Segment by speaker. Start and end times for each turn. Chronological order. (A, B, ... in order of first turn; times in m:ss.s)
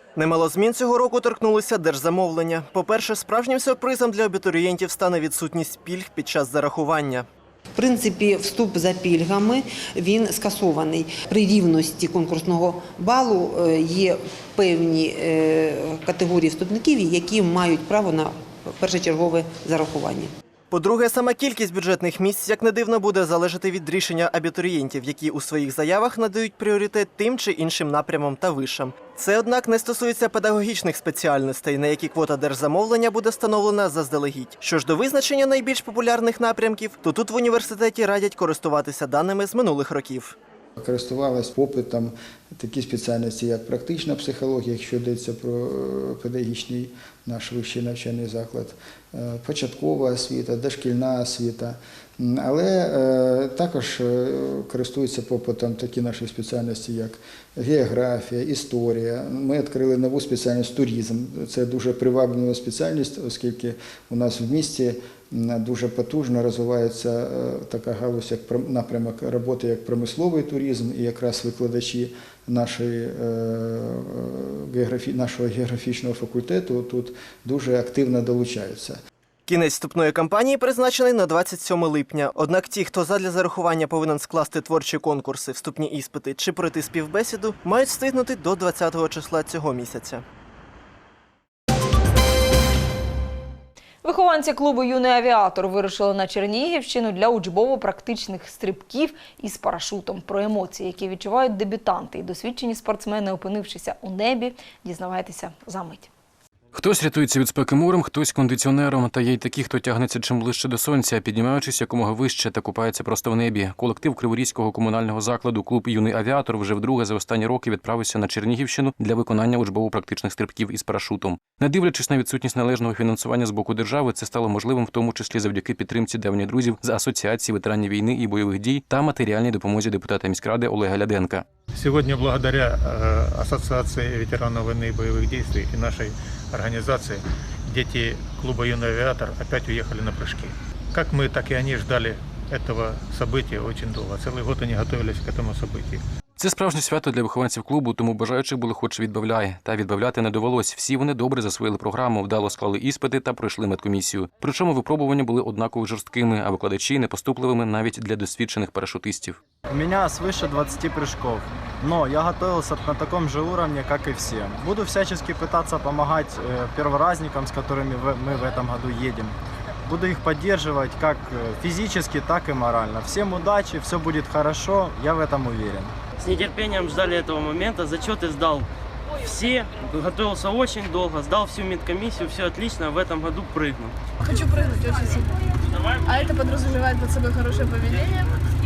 0:00.2-0:07.3 A
0:07.8-0:20.3 B
0:20.7-0:40.4 A
0:40.8-1:19.0 C
1:19.5-1:30.2 A
1:34.0-1:46.1 D
1:46.7-2:11.4 E
2:11.7-2:26.0 F
2:26.4-2:39.4 E
2:39.7-2:55.9 G
2:56.2-2:58.7 H
2:59.2-3:03.9 H
3:04.2-3:05.3 I
3:06.0-3:08.4 I